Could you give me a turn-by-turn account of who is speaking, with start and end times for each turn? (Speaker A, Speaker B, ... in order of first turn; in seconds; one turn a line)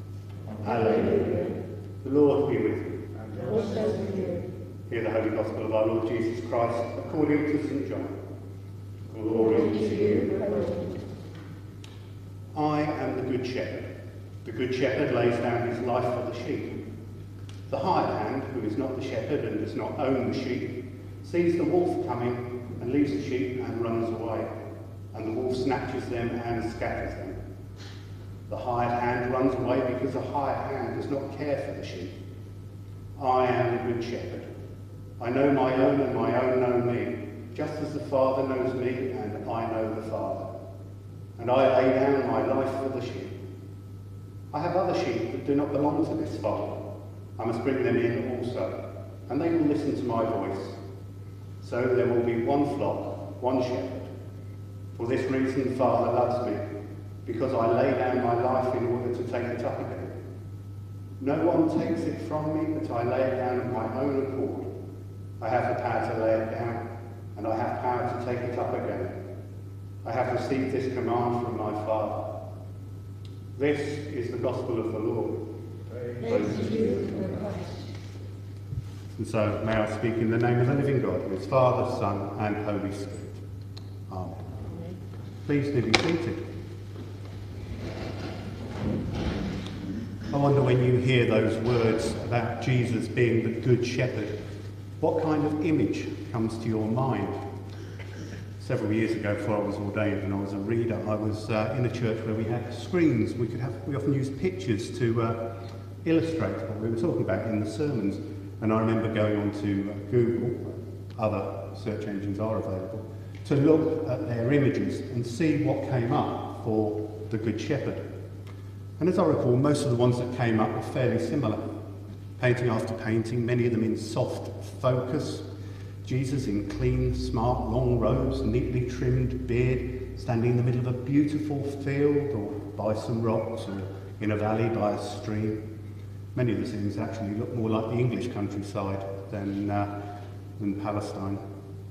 Speaker A: 0.6-3.0
Speaker B: 3.4-4.5
Speaker A: 4.9-8.2
Speaker A: 9.1-10.3
Speaker B: 10.2-10.9
Speaker A: 12.5-13.9
Speaker A: 14.4-16.8
Speaker A: 17.7-24.5
Speaker A: 25.1-27.4
Speaker A: 28.5-32.1
Speaker A: 33.2-34.5
Speaker A: 35.2-40.5
Speaker A: 41.4-43.4
Speaker A: 44.5-46.8
Speaker A: 47.4-50.8
Speaker A: 51.6-54.1
Speaker A: 55.0-56.6
Speaker A: 57.2-60.1
Speaker A: 61.2-64.7
Speaker A: 65.4-69.2
Speaker A: 70.0-72.2
Speaker A: 73.6-75.5
Speaker B: 76.2-77.5
Speaker A: 79.2-83.4
Speaker A: 84.1-84.5
Speaker A: 85.5-86.5
Speaker A: 90.3-94.4
Speaker A: 95.0-97.4
Speaker A: 98.6-118.1
Speaker A: 119.0-121.7
Speaker A: 122.4-125.5
Speaker A: 126.0-135.6
Speaker A: 136.3-139.9
Speaker A: 140.6-141.4